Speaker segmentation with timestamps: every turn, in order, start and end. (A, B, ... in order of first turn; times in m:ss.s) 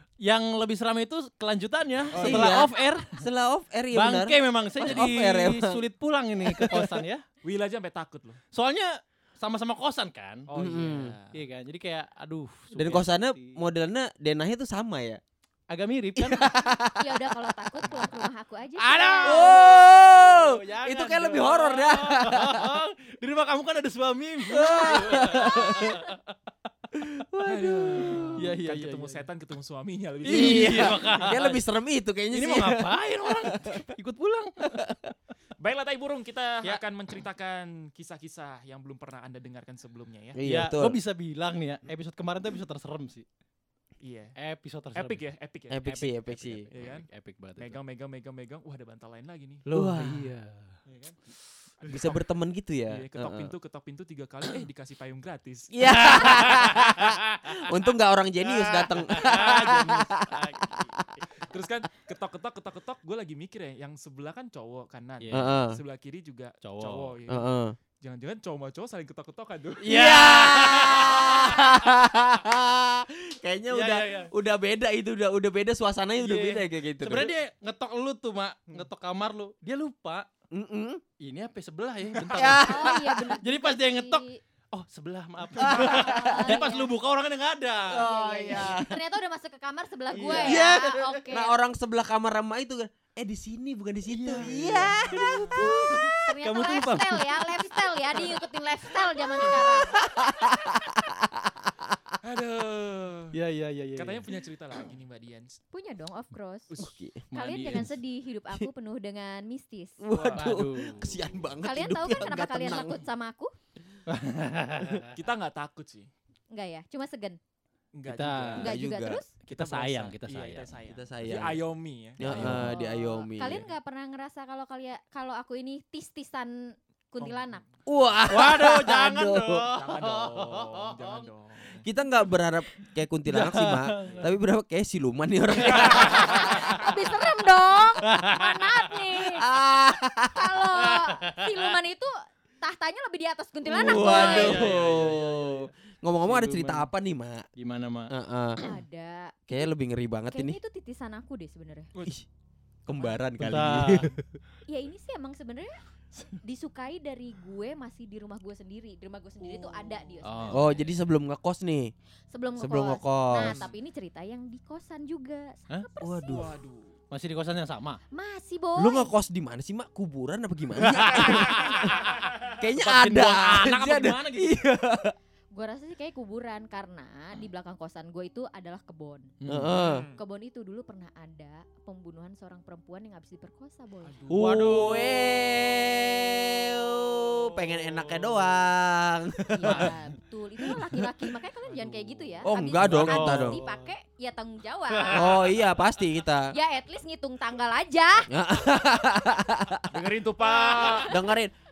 0:00.2-0:03.2 A
0:02.1-0:02.7 B
0:02.1-0:05.8 C
0:03.9-0:07.2 A
0:06.4-0:07.0 C
0:07.5-0:08.4 D
0:08.5-0:10.5 A
0:10.5-0:11.3 D
0:10.6-0:11.2 C
0:10.7-0:11.1 B
0:11.3-0:13.6 A
0:12.7-0:15.2 C
0:15.7-0:16.5 A
0:16.2-0:18.1 C
0:17.0-0:19.8 B
0:18.8-0:26.3 A
0:19.2-0:22.8 C
0:24.5-0:26.1 C
0:25.1-0:25.9 B
0:27.0-0:28.4 C
0:27.4-0:28.6 B
0:28.0-0:29.3 A
0:28.7-0:29.3 D
0:29.3-0:31.2 B
0:30.2-0:31.6 A
0:30.3-0:33.9 C
0:32.3-0:35.0 A
0:35.6-0:40.4 D
0:36.7-0:37.2 B
0:39.9-0:40.3 B
0:40.4-0:41.0 C
0:40.4-0:43.2 A
0:44.0-0:44.3 D
0:44.4-0:47.8 A
0:45.0-0:45.7 D
0:45.7-0:46.7 C
0:46.8-0:47.0 D
0:47.7-0:49.6 D
0:49.7-0:50.3 C
0:49.7-0:50.8 A
0:50.9-0:51.1 D
0:51.9-0:53.6 C
0:53.0-0:55.6 D
0:53.2-0:53.5 B
0:54.4-0:55.0 B
0:55.7-1:00.8 C
0:55.8-0:57.8 A
0:58.4-1:01.4 A
1:01.5-1:02.4 B
1:01.5-1:05.2 D
1:05.2-1:05.6 A
1:05.3-1:05.8 C
1:05.8-1:07.2 D
1:06.6-1:07.2 A
1:07.3-1:07.8 C
1:08.0-1:09.7 D
1:09.8-1:11.8 A
1:09.8-1:17.3 C
1:13.7-1:14.3 A
1:16.2-1:20.3 A
1:20.5-1:21.0 C
1:21.2-1:28.1 A
1:22.3-1:24.4 B
1:22.4-1:23.4 C
1:25.6-1:26.6 C
1:25.7-1:26.9 B
1:27.9-1:29.0 C
1:27.9-1:31.6 B
1:30.1-1:31.1 A
1:30.2-1:36.0 C
1:34.1-1:37.6 A
1:36.3-1:40.0 B
1:39.4-1:39.7 A
1:39.4-1:42.0 C
1:42.3-1:43.3 D
1:42.5-1:43.2 B
1:43.3-1:44.3 A
1:44.0-1:45.6 D
1:44.3-1:45.0 B
1:45.6-1:50.6 B
1:46.8-1:47.9 C
1:47.3-1:47.9 A
1:50.0-1:53.0 C
1:50.3-1:51.3 A
1:51.6-1:53.6 B
1:54.1-1:55.2 A
1:55.3-1:56.1 D
1:56.5-1:57.4 B
1:58.0-1:58.8 A
1:58.1-2:00.0 B
1:58.6-1:59.2 C
1:59.4-2:00.8 A
1:59.6-2:02.2 D
2:00.8-2:01.6 C
2:01.2-2:01.6 B
2:02.1-2:07.6 B
2:02.2-2:03.7 C
2:02.2-2:02.8 A
2:07.2-2:07.5 A
2:07.9-2:09.7 C
2:08.3-2:11.8 A
2:09.9-2:11.3 D
2:11.8-2:16.9 C
2:13.3-2:14.3 A
2:15.5-2:19.5 B
2:15.6-2:17.2 A
2:17.8-2:19.2 A
2:19.2-2:20.8 C
2:20.3-2:24.9 B
2:20.8-2:21.8 A
2:23.6-2:27.4 C
2:24.0-2:26.9 A
2:27.6-2:28.1 A
2:28.1-2:28.8 C
2:28.6-2:29.7 B
2:29.5-2:30.6 C
2:30.3-2:32.2 B
2:32.9-2:34.2 C
2:33.4-2:34.2 A
2:34.7-2:35.8 B
2:36.4-2:40.9 B
2:40.2-2:40.8 A
2:40.5-2:41.9 C
2:42.3-2:46.7 B
2:42.6-2:43.7 C
2:46.0-2:46.6 C
2:46.4-2:46.9 D
2:47.1-2:48.0 A
2:48.1-2:49.1 B
2:48.8-2:52.0 C
2:50.8-2:54.5 A
2:51.3-2:51.8 B
2:52.6-2:55.2 C
2:55.5-3:04.5 B
2:59.4-2:59.8 A
2:59.5-3:00.1 C
3:04.3-3:05.5 A
3:04.3-3:10.0 C
3:07.7-3:08.5 A
3:09.5-3:15.4 B
3:09.6-3:10.0 A
3:10.7-3:11.1 C
3:11.6-3:12.2 D
3:12.4-3:13.6 C
3:12.7-3:13.9 A
3:14.9-3:15.6 A
3:15.1-3:16.5 C
3:16.5-3:18.3 B
3:18.3-3:20.1 C
3:19.9-3:21.1 B
3:20.4-3:21.1 A
3:21.1-3:21.5 C